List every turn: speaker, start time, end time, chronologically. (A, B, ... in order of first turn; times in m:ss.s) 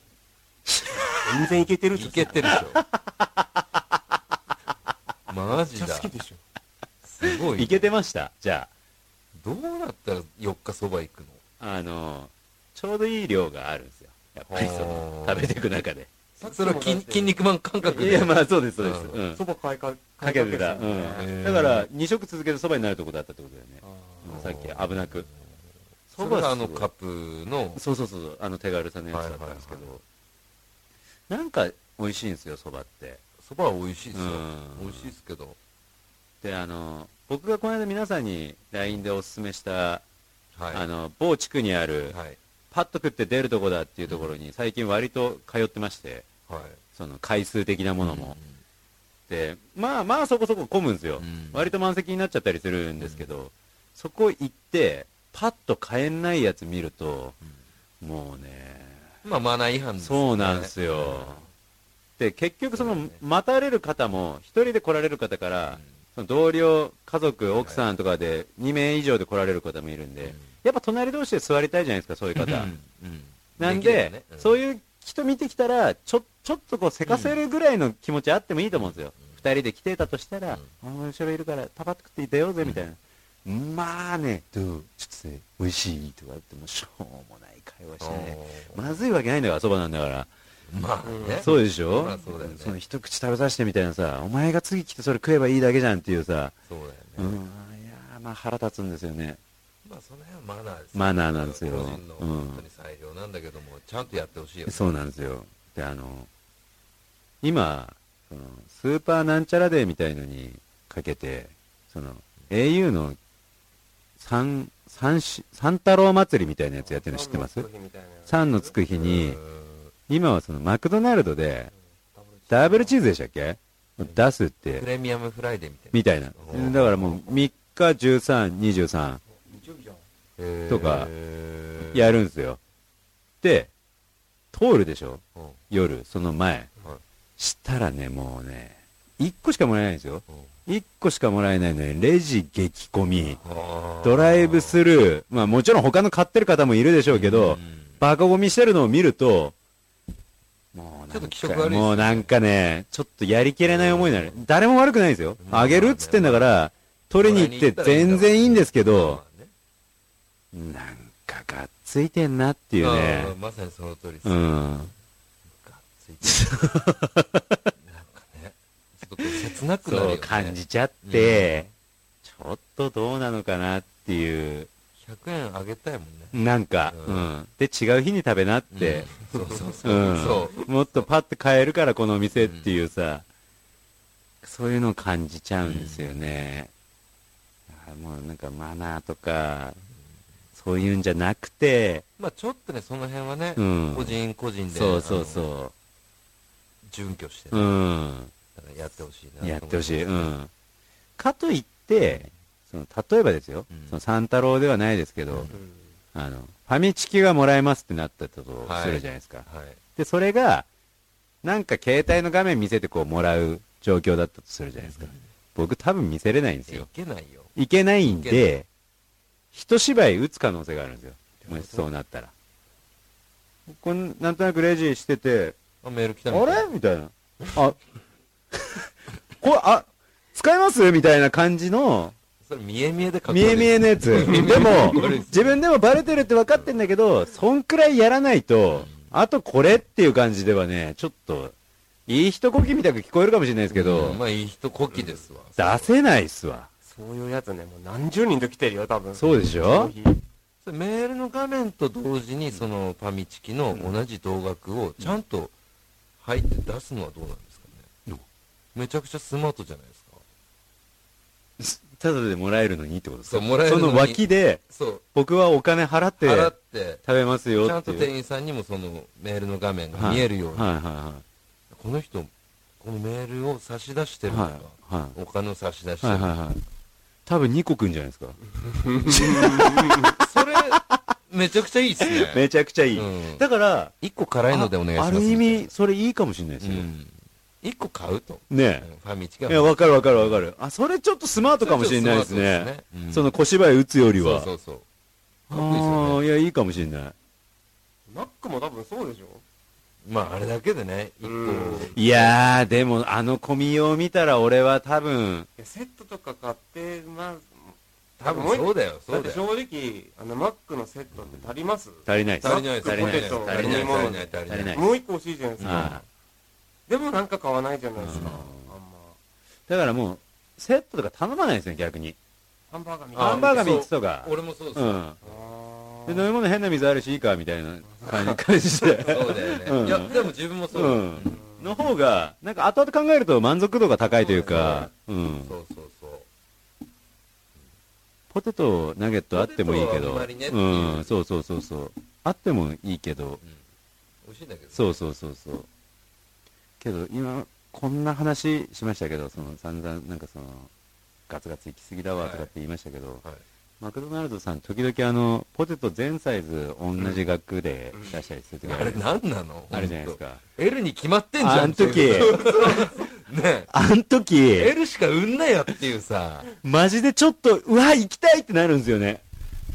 0:01.2-0:02.6 A
0:01.9-0:02.8 B
0:02.4-0:03.6 C
0:05.3-0:06.1 B
0:05.5-0:06.4 A
0:07.0-0:07.9 B
0:07.2-0:08.7 C
0:09.4-0:11.4 B
0:11.6-0:16.1 C
0:14.5-0:15.6 B
0:16.4-0:18.2 A
0:16.4-0:19.2 B
0:17.9-0:19.4 C
0:19.3-0:21.3 A
0:20.2-0:25.3 C
0:21.1-0:21.9 B
0:23.8-0:24.3 A
0:24.3-0:25.6 B
0:26.1-0:26.9 C
0:26.1-0:27.8 B
0:27.8-0:30.0 C
0:29.1-0:29.8 B
0:31.3-0:33.2 C
0:33.4-0:35.6 B
0:34.1-0:35.1 C
0:36.4-0:40.0 C
0:40.6-0:40.8 B
0:40.7-0:42.2 C
0:42.1-0:42.4 B
0:42.7-0:46.3 C
0:44.0-0:44.3 B
0:46.5-0:46.8 B
0:46.9-0:48.4 C
0:48.0-0:48.6 B
0:49.3-0:57.4 C
0:51.2-0:51.7 B
0:53.0-0:53.2 B
0:58.0-0:59.1 C
0:59.2-1:01.5 B
1:00.0-1:01.4 C
1:02.2-1:12.7 C
1:02.7-1:03.2 B
1:10.2-1:10.5 B
1:12.3-1:14.6 B
1:13.6-1:30.3 C
1:17.0-1:17.4 B
1:18.7-1:19.4 B
1:28.0-1:28.9 B
1:30.7-1:32.8 B
1:31.0-1:31.5 A
1:31.4-1:36.5 C
1:36.7-1:37.4 B
1:37.2-1:39.4 C
1:39.8-1:45.0 B
1:40.9-1:42.6 C
1:44.6-1:46.3 C
1:47.4-1:53.2 C
1:54.2-1:57.7 C
1:56.8-1:58.7 A
1:58.3-1:59.4 C
1:58.9-1:59.9 B
2:00.1-2:01.7 C
2:02.1-2:03.0 A
2:02.5-2:04.9 C
2:04.7-2:07.2 B
2:05.9-2:09.2 C
2:09.3-2:10.0 A
2:10.4-2:12.1 B
2:10.7-2:11.1 C
2:11.8-2:12.6 C
2:13.4-2:13.7 C
2:14.5-2:16.7 C
2:15.3-2:15.6 B
2:17.4-2:23.4 C
2:23.4-2:24.8 B
2:24.0-2:29.5 C
2:27.1-2:28.0 B
2:30.7-2:39.2 C
2:31.1-2:32.3 B
2:33.6-2:34.4 B
2:35.4-2:36.6 B
2:37.2-2:39.5 B
2:40.5-2:43.3 C
2:42.8-2:44.7 B
2:44.2-2:44.9 C
2:45.5-2:46.8 B
2:46.2-2:47.7 C
2:47.8-2:51.6 B
2:49.2-2:51.7 C
2:52.2-2:54.7 C
2:55.0-2:57.3 B
2:56.3-2:59.2 C
2:58.7-3:01.0 B
2:59.8-3:03.2 C
3:02.4-3:02.7 B
3:04.4-3:06.7 C
3:05.6-3:06.2 B
3:07.7-3:09.8 C
3:10.5-3:12.0 C
3:12.2-3:15.4 B
3:13.6-3:14.2 C
3:14.7-3:15.7 C
3:16.8-3:17.8 B
3:17.5-3:18.3 C
3:18.5-3:20.3 B
3:19.4-3:20.5 C
3:21.2-3:25.5 C
3:22.0-3:22.3 B
3:23.7-3:24.0 B
3:25.3-3:25.6 B
3:25.5-3:25.9 A
3:26.1-3:29.4 C
3:28.6-3:29.8 B
3:30.0-3:30.7 C
3:31.4-3:36.9 C
3:34.8-3:35.2 B
3:36.7-3:37.5 B
3:37.6-3:38.7 C
3:38.0-3:38.5 B
3:39.5-3:42.3 C
3:41.4-3:41.8 B
3:43.7-3:45.6 C
3:45.8-3:46.7 B
3:46.3-3:47.8 C
3:48.5-3:52.1 C
3:52.4-3:55.6 B
3:53.3-4:01.5 C
3:58.7-3:59.1 B
4:02.1-4:04.2 C
4:03.7-4:05.9 B
4:05.6-4:06.7 C
4:06.8-4:10.2 A
4:09.1-4:09.9 C
4:10.6-4:15.5 B
4:16.2-4:17.8 B
4:18.7-4:20.2 B
4:21.6-4:24.6 C
4:23.2-4:25.0 B
4:25.1-4:28.1 C
4:26.2-4:27.0 B
4:27.5-4:30.7 B
4:29.9-4:31.2 C
4:31.7-4:36.4 B
4:34.3-4:35.2 C
4:36.0-4:36.6 C
4:37.2-4:38.4 C
4:38.6-4:40.1 A
4:39.1-4:41.1 C
4:40.1-4:43.4 B
4:42.0-4:43.9 C
4:44.0-4:45.7 B
4:44.5-4:46.9 C
4:46.6-4:50.4 B
4:48.5-4:48.9 C
4:49.5-4:54.5 C
4:51.5-4:53.4 B
4:54.1-4:54.8 B
4:55.5-4:56.2 B
4:55.5-4:57.1 C
4:58.1-4:59.4 A
5:00.0-5:02.3 B
5:01.2-5:02.0 A
5:01.9-5:05.5 C
5:05.6-5:16.0 A
5:08.2-5:09.4 B
5:12.1-5:14.9 C
5:12.4-5:14.8 B
5:15.6-5:16.0 B
5:15.6-5:16.0 C
5:16.9-5:19.2 A
5:18.0-5:18.4 B
5:18.0-5:18.7 C
5:19.7-5:22.2 C
5:22.7-5:23.9 A
5:23.1-5:25.4 B
5:23.2-5:25.2 C
5:25.2-5:26.3 A
5:26.1-5:30.2 C
5:27.8-5:28.4 A
5:29.0-5:31.4 B
5:30.7-5:35.5 C
5:31.2-5:31.9 A
5:34.2-5:34.8 A
5:34.4-5:36.2 B
5:38.3-5:43.4 C
5:39.3-5:41.1 B
5:44.2-5:45.0 B
5:44.7-5:45.7 C
5:46.8-5:50.7 C
5:51.3-5:53.2 C
5:52.2-5:52.5 B
5:53.8-5:59.0 C
5:58.6-6:03.7 B
5:59.7-6:00.4 C
6:01.4-6:02.8 C
6:03.7-6:04.7 C
6:04.5-6:06.5 B
6:06.6-6:09.2 C